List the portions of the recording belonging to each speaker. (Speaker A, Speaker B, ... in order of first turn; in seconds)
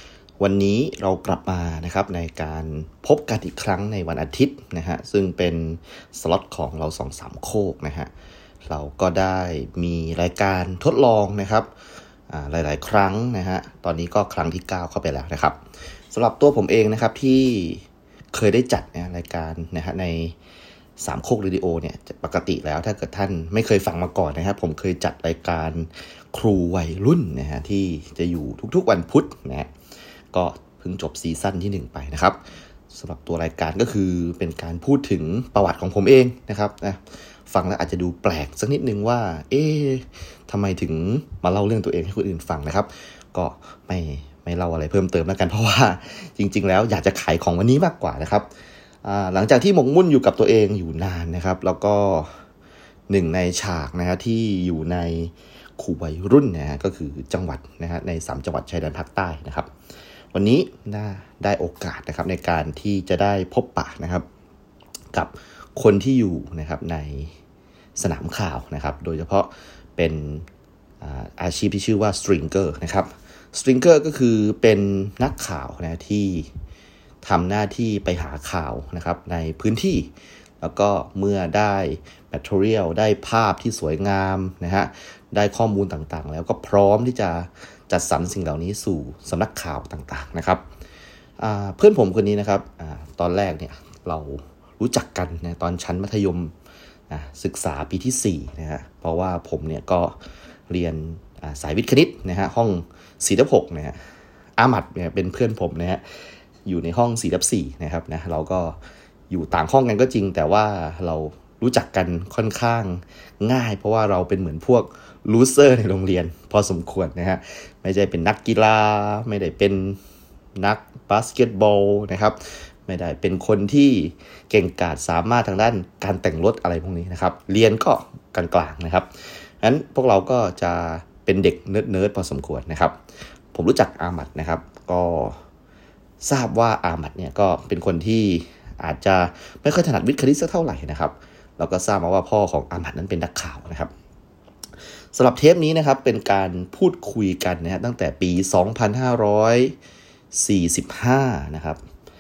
Speaker A: 0.4-8.1, 8.7-11.7, 12.3-15.6, 16.1-20.4, 21.0-29.7, 30.3-48.5, 49.0-52.3, 53.1-59.7, 60.3-64.3, 65.1-67.3, 68.0-70.5, 71.0-76.5, 77.2-80.1, 80.6-90.6, 91.4-96.5, 97.1-100.2, 100.7-104.0, 104.6-106.0, 106.7-108.8, 109.3-120.0, 120.6-129.1, 129.6-133.0, 133.5-135.4, 136.2-143.9, 145.1-149.8, 150.3-151.8